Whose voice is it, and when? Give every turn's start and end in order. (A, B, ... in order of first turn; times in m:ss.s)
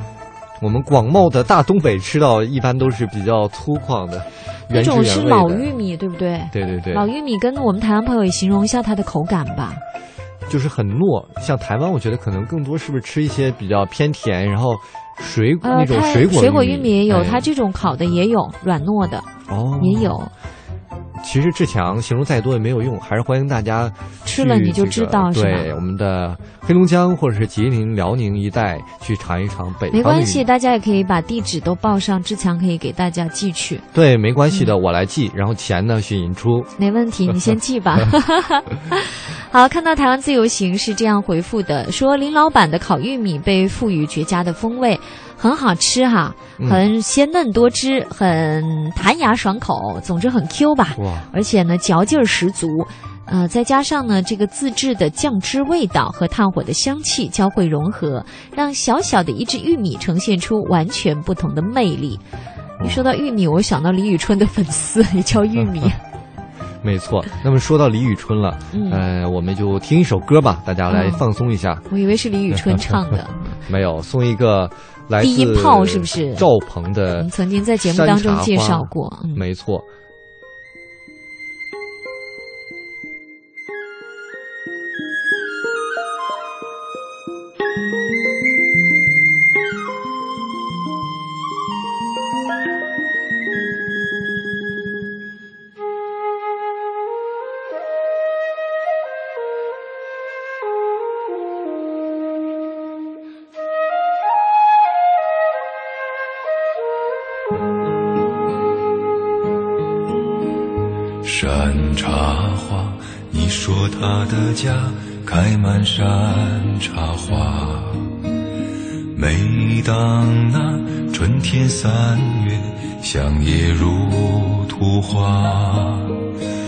0:00.6-0:05.7 A
0:04.7-0:09.8 B
0:06.5-0:07.1 A
0:10.5-0:17.5 A
0:15.6-0:20.3 B
0:19.5-0:20.1 A
0:21.2-0:30.4 A
0:24.2-0:25.7 B
0:29.9-0:33.8 B
0:33.9-0:36.7 A
0:36.8-1:02.2 B
0:46.6-0:46.8 A
0:51.0-0:51.3 A
1:02.8-1:03.0 A
1:02.8-1:06.0 B
1:06.8-1:11.8 A
1:08.7-1:09.0 B
1:10.9-1:11.2 B
1:11.9-1:13.6 B
1:12.5-1:13.0 A
1:13.7-1:17.3 A
1:15.2-1:16.4 B
1:17.2-1:19.4 B
1:17.8-1:19.8 A
1:51.2-1:58.1 C
1:59.1-2:06.2 C